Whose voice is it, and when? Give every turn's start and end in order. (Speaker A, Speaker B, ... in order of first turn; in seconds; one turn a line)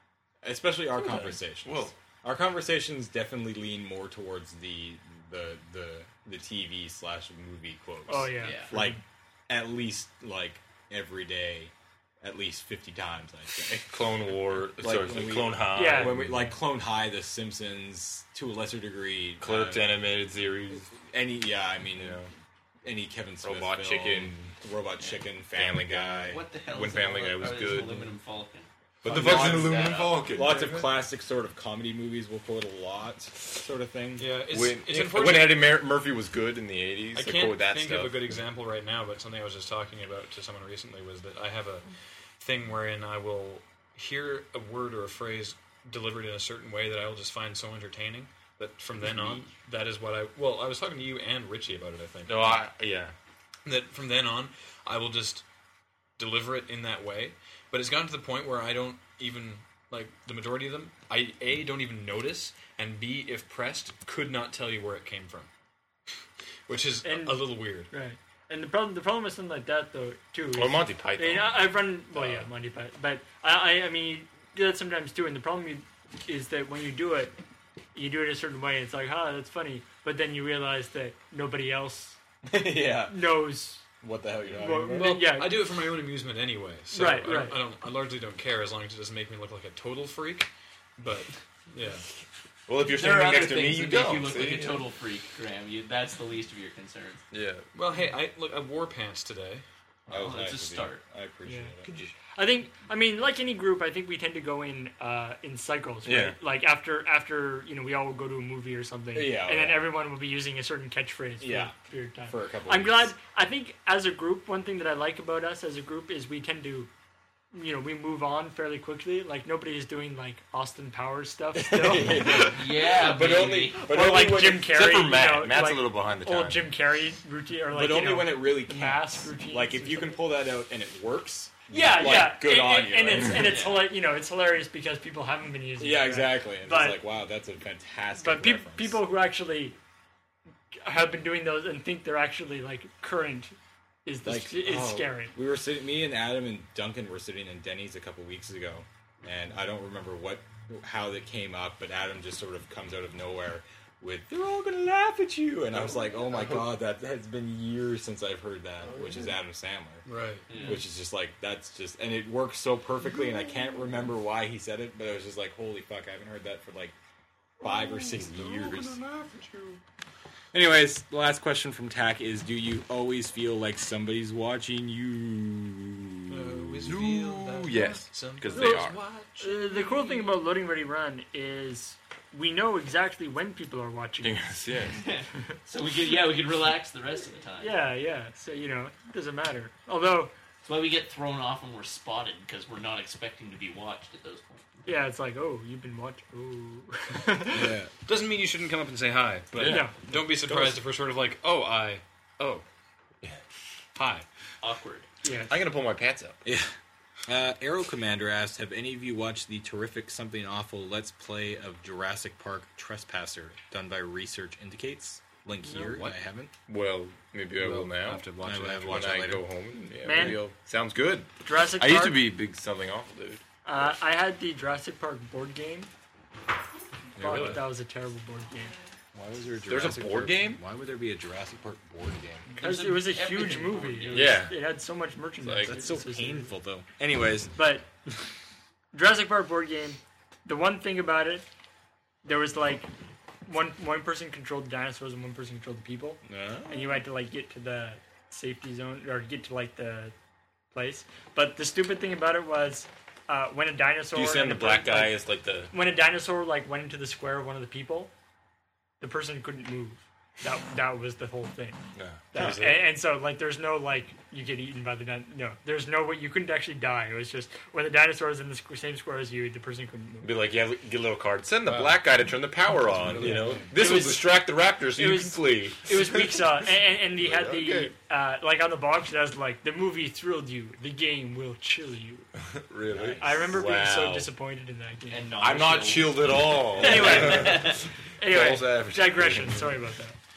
Speaker A: 0.4-14.1
Speaker B: 1.6-1.9
Speaker C: 8.1-9.0
Speaker D: 8.4-8.7
Speaker B: 13.9-16.4
Speaker A: 14.8-20.0
Speaker C: 15.7-16.6
Speaker B: 19.4-20.9
Speaker A: 20.7-22.2
Speaker B: 21.9-22.3
Speaker A: 22.8-26.4
Speaker B: 23.4-24.4
Speaker B: 25.5-28.0
Speaker D: 26.2-30.4
Speaker B: 29.0-31.0
Speaker A: 29.1-34.3
Speaker E: 34.2-35.7
Speaker B: 34.5-38.2
Speaker E: 37.1-41.9
Speaker E: 42.4-52.6
Speaker B: 52.2-53.1
Speaker E: 53.6-55.4
Speaker E: 56.2-65.5
Speaker E: 66.7-67.9
Speaker C: 67.0-77.3
Speaker B: 70.5-72.4
Speaker C: 77.9-82.2
Speaker A: 82.4-83.5
Speaker C: 83.1-83.8
Speaker A: 84.0-85.2
Speaker C: 84.6-85.6
Speaker E: 84.8-92.0
Speaker C: 86.9-87.6
Speaker B: 92.7-94.8
Speaker D: 92.8-97.2
Speaker B: 97.3-97.7
Speaker E: 97.7-99.6
Speaker D: 100.1-101.0
Speaker A: 100.1-101.9
Speaker C: 101.4-101.7
Speaker C: 102.3-116.9
Speaker A: 106.0-106.3
Speaker A: 109.1-109.9
Speaker A: 111.4-111.7
Speaker A: 112.3-113.1
Speaker C: 117.5-122.5
Speaker A: 121.5-123.3
Speaker B: 122.3-126.7
Speaker D: 122.4-123.9
Speaker C: 123.7-130.2
Speaker A: 127.7-133.6
Speaker C: 131.7-137.0
Speaker D: 133.3-133.9
Speaker A: 135.8-139.0
Speaker C: 138.2-139.8
Speaker C: 140.8-145.3
Speaker A: 144.2-160.0
Speaker B: 155.8-156.6
Speaker E: 160.1-160.5
Speaker D: 160.5-160.8
Speaker A: 160.6-166.9
Speaker A: 167.6-169.0
Speaker E: 167.7-169.8
Speaker A: 170.5-176.8
Speaker E: 176.3-180.3
Speaker B: 176.8-179.0
Speaker C: 178.5-178.9
Speaker C: 179.4-184.4
Speaker B: 184.2-185.0
Speaker D: 184.9-187.8
Speaker C: 187.6-190.3
Speaker D: 190.6-194.8
Speaker C: 194.8-197.8
Speaker A: 197.5-197.9
Speaker E: 198.1-202.6
Speaker B: 199.5-199.8
Speaker C: 199.6-200.0
Speaker E: 203.9-204.2
Speaker D: 204.6-205.1
Speaker C: 205.2-205.5
Speaker B: 205.5-206.4
Speaker A: 206.4-206.7
Speaker A: 207.3-216.5
Speaker E: 215.8-216.2
Speaker B: 216.7-218.2
Speaker E: 217.6-219.2
Speaker A: 218.4-219.4
Speaker B: 218.9-223.4
Speaker C: 220.0-220.4
Speaker A: 220.1-220.5
Speaker C: 221.4-222.2
Speaker C: 223.6-225.9
Speaker C: 227.2-228.7
Speaker A: 227.2-227.6
Speaker E: 227.2-227.6
Speaker A: 229.1-232.5
Speaker B: 229.7-230.6
Speaker D: 232.5-234.5
Speaker C: 232.6-236.5
Speaker B: 234.1-234.6
Speaker B: 235.4-235.8
Speaker A: 235.6-237.5
Speaker C: 237.5-237.9
Speaker C: 238.9-241.4
Speaker C: 242.2-242.9
Speaker C: 243.5-250.1
Speaker A: 246.2-246.9
Speaker C: 250.7-255.2
Speaker B: 254.1-255.7
Speaker C: 255.7-258.1
Speaker C: 259.0-261.8
Speaker B: 261.9-262.8
Speaker C: 262.3-270.3
Speaker B: 270.2-276.5
Speaker E: 271.6-272.0
Speaker E: 273.0-273.6
Speaker A: 273.2-273.6
Speaker C: 273.2-274.4
Speaker C: 274.9-282.3
Speaker B: 277.1-277.9
Speaker B: 282.6-284.3
Speaker A: 282.9-283.6
Speaker C: 283.2-285.3
Speaker D: 285.1-287.8
Speaker B: 285.4-289.7
Speaker C: 286.8-290.2